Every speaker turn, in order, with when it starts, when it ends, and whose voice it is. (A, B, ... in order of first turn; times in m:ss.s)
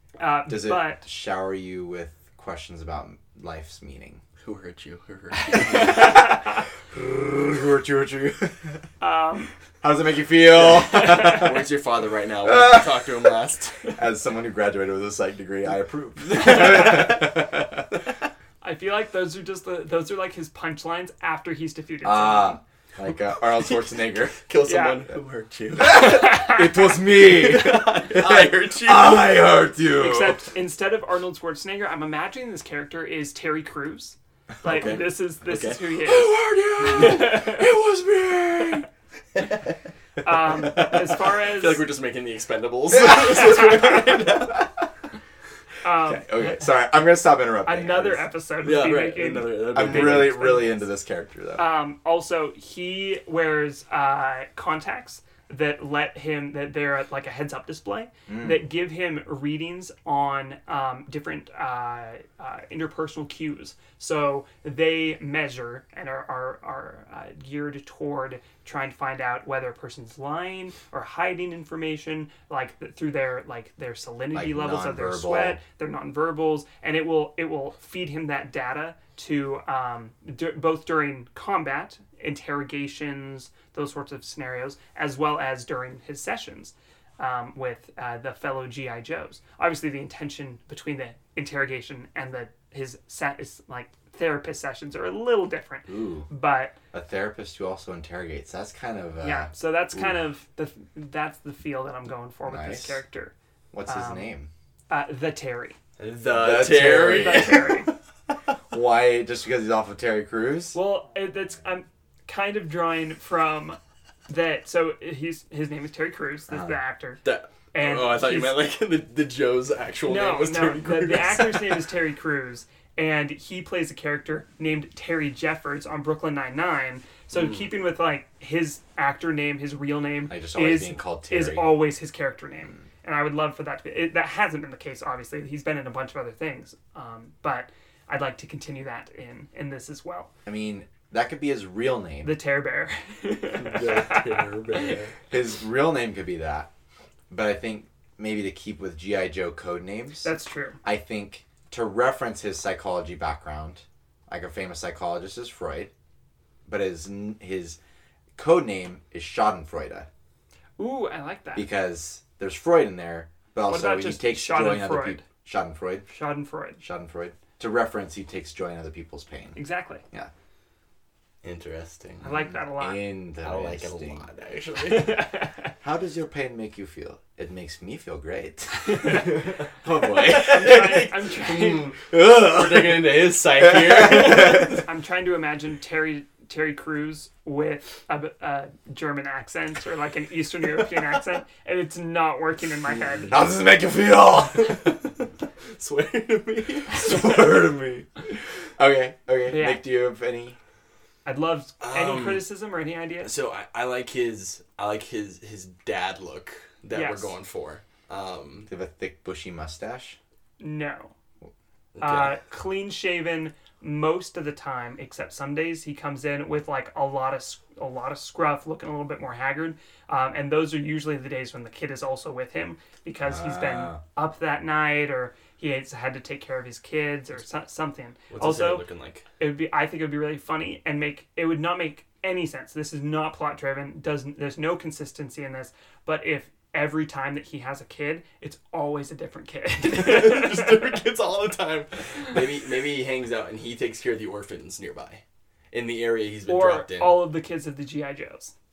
0:00.2-0:01.0 A
0:00.5-0:04.2 B
0:04.4-0:06.3 C
0:05.5-0:08.8 B
0:05.5-0:06.5 A
0:09.0-0:09.5 A
0:09.8-0:11.7 B
0:10.6-0:13.9 C
0:10.9-0:11.4 A
0:12.4-0:13.4 B
0:13.9-0:18.0 B
0:16.3-0:17.1 C
0:18.6-0:22.6 A
0:22.0-0:24.4 B
0:24.4-0:26.5 C
0:24.6-0:25.0 A
0:25.8-0:30.4 B
0:25.8-0:26.9 A
0:27.1-0:29.5 C
0:30.0-0:37.7 A
0:34.6-0:37.8 C
0:36.4-0:38.8 B
0:38.4-0:38.7 C
0:39.4-0:39.7 C
0:40.2-0:41.8 A
0:40.5-0:44.7 C
0:43.0-0:44.7 B
0:45.8-0:46.7 A
0:46.0-0:48.2 B
0:47.6-0:50.8 A
0:48.6-0:50.6 C
0:49.7-0:51.6 B
0:51.6-1:36.8 A
0:58.3-0:58.6 B
1:14.3-1:15.6 B
1:35.9-1:36.3 B
1:36.9-1:40.1 B
1:39.2-1:43.3 A
1:42.4-1:43.0 B
1:43.7-1:44.5 B
1:43.8-1:44.3 A
1:44.9-1:45.8 A
1:46.0-1:47.8 C
1:46.2-1:47.8 B
1:46.9-1:47.9 A
1:48.7-1:50.8 B
1:50.7-1:57.2 A
1:56.5-1:56.8 B
1:57.2-2:01.8 C
1:57.7-1:58.6 A
2:00.0-2:20.3 A
2:10.3-2:11.8 B
2:20.4-2:22.3 B
2:22.2-2:24.9 A
2:23.5-2:25.1 C
2:25.3-2:26.7 B
2:27.3-2:30.3 B
2:30.2-2:30.8 A
2:30.8-2:35.9 B
2:36.6-2:37.8 B
2:38.4-2:40.1 B
2:40.8-2:41.7 A
2:41.5-2:46.1 B
2:43.7-2:45.2 A
2:46.1-2:46.8 A
2:46.8-2:49.6 B
2:49.6-2:50.0 A
2:51.4-2:52.4 C
2:52.2-2:53.0 A
2:52.2-2:54.3 B
2:53.4-2:55.2 C
2:54.8-2:55.7 A
2:55.8-2:59.3 B
2:58.8-2:59.2 A
2:59.0-3:04.8 C
2:59.8-3:00.8 B
3:00.3-3:01.9 A
3:02.1-3:04.7 B
3:04.6-3:13.4 A
3:12.9-3:13.4 C
3:13.3-3:14.9 B
3:15.7-3:17.3 C
3:16.9-3:20.6 B
3:19.5-3:19.8 A
3:21.2-3:23.3 A
3:21.8-3:22.4 C
3:23.2-3:28.7 C
3:26.9-3:27.3 A
3:28.7-3:30.2 B
3:30.6-3:31.1 A
3:32.0-3:32.4 C
3:32.0-3:48.8 A
3:43.2-3:44.0 B
3:48.3-3:49.2 C
3:49.4-4:01.0 A
3:59.8-4:07.2 C
4:06.5-4:08.5 A